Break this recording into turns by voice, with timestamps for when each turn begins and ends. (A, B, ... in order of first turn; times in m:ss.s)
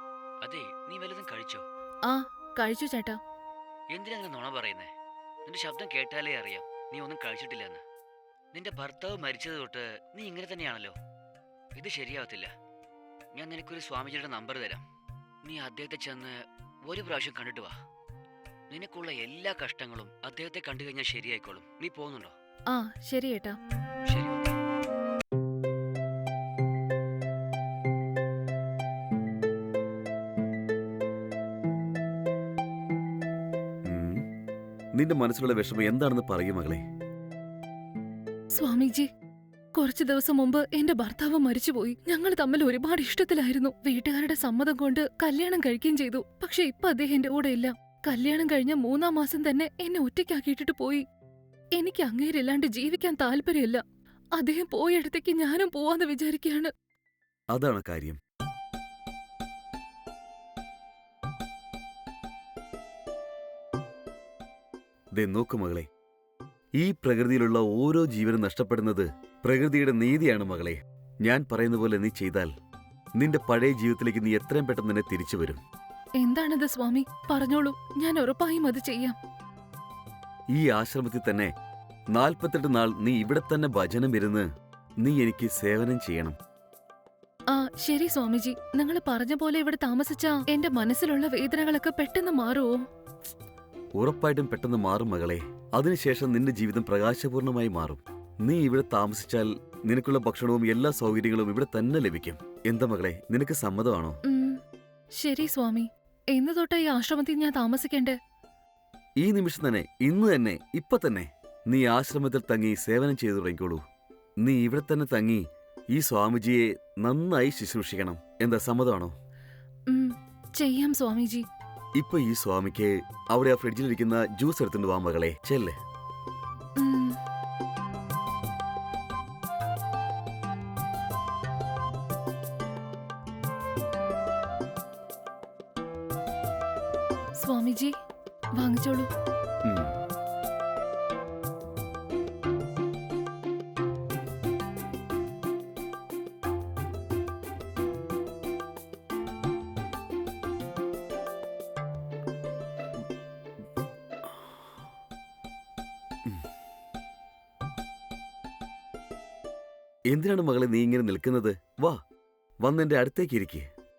0:00.4-0:01.6 A
0:02.1-0:03.2 B
0:03.9-0:04.9 A
0:05.4-0:07.8 A
0:08.5-0:11.0 A
0:11.7-0:12.5 A
0:13.3-0:14.8 A
0:15.4-0:17.8 A
0:18.7-0:22.3 A
0:22.7-0:23.6 B
0:24.0-0:24.5 A
0:33.8-0:34.2 C
0:35.0-0:36.8 C
0:38.5-0:39.1 B
0:39.7-0:51.0 B
0:51.8-0:53.8 B
0:54.4-0:56.7 B
0:57.5-0:58.2 C
1:05.2-1:05.9 C
1:06.8-1:12.5 C
1:13.2-1:15.6 C
1:16.2-1:19.2 B
1:20.5-1:21.5 C
1:22.1-1:24.5 C
1:25.0-1:26.4 C
1:27.5-1:32.7 B
1:34.0-1:44.2 C
1:44.2-1:44.6 B
1:45.2-1:48.2 B
1:49.2-1:53.8 C
1:54.4-1:59.1 C
1:59.9-2:01.4 B
2:02.0-2:05.7 C
2:06.8-2:07.2 B
2:17.4-2:17.9 B
2:18.6-2:19.1 B
2:19.6-2:19.9 C
2:40.1-2:42.0 C
2:42.6-2:43.6 C